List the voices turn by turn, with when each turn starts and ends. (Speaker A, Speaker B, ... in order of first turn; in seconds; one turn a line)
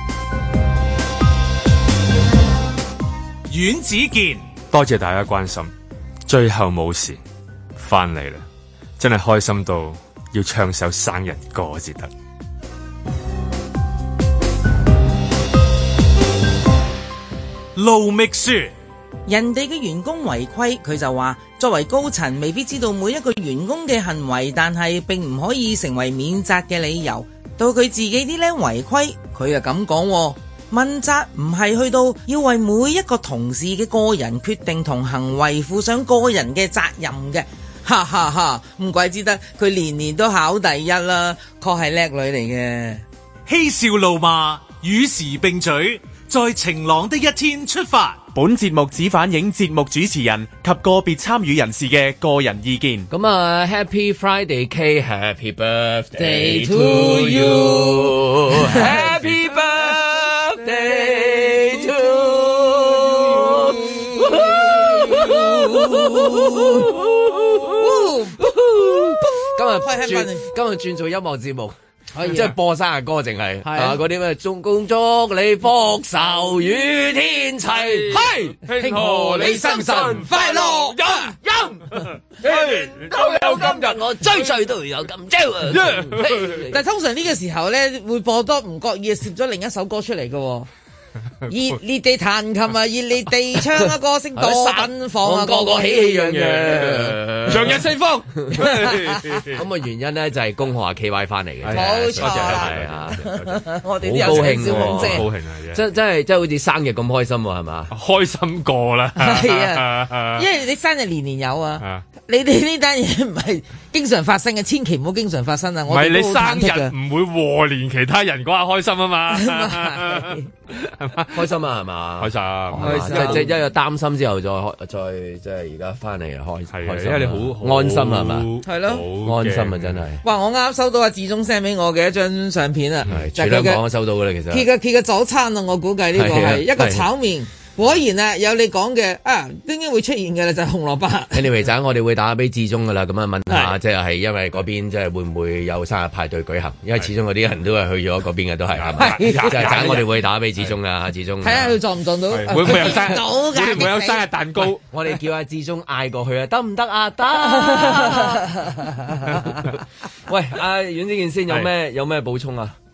Speaker A: 3.5-4.5
Speaker B: 4.7-5.7
Speaker B: 6.3-7.2
Speaker B: 7.8-8.4
Speaker B: 9.0-12.1
Speaker A: 17.8-18.7
Speaker C: 19.3-43.0
Speaker A: 43.5-48.3
Speaker D: 48.3-53.1
Speaker E: 53.1-78.6
Speaker C: 56.2-59.0
Speaker C: 64.0-66.9
Speaker C: 67.8-68.5
Speaker C: 69.3-70.5
Speaker C: 72.1-72.5
Speaker C: 73.6-74.0
Speaker B: 77.8-80.9
Speaker C: 78.8-81.3
Speaker E: 79.3-86.8
Speaker B: 82.4-83.7
Speaker B: 85.7-86.7
Speaker C: 86.7-90.7
Speaker C: 91.5-96.2
Speaker E: 94.3-97.8
Speaker B: 96.2-99.6
Speaker E: 98.4-98.9
Speaker E: 99.5-103.4
Speaker B: 101.6-103.6
Speaker C: 101.7-105.2
Speaker E: 104.0-107.9
Speaker B: 104.2-105.8
Speaker B: 107.9-110.5
Speaker C: 109.2-116.9
Speaker B: 115.9-121.5
Speaker C: 119.3-120.5
Speaker E: 121.3-128.5
Speaker B: 122.2-123.5
Speaker C: 122.8-123.5
Speaker B: 126.7-130.1
Speaker C: 128.6-129.0
Speaker E: 129.2-130.2
Speaker C: 130.2-133.8
Speaker E: 133.1-134.7
Speaker C: 134.5-141.5
Speaker E: 136.1-137.1
Speaker E: 141.3-151.8
Speaker C: 143.5-143.8
Speaker B: 148.8-150.7
Speaker C: 149.0-150.0
Speaker C: 151.4-154.2
Speaker B: 152.3-154.8
Speaker E: 154.9-158.5
Speaker C: 157.4-159.6
Speaker E: 159.2-162.8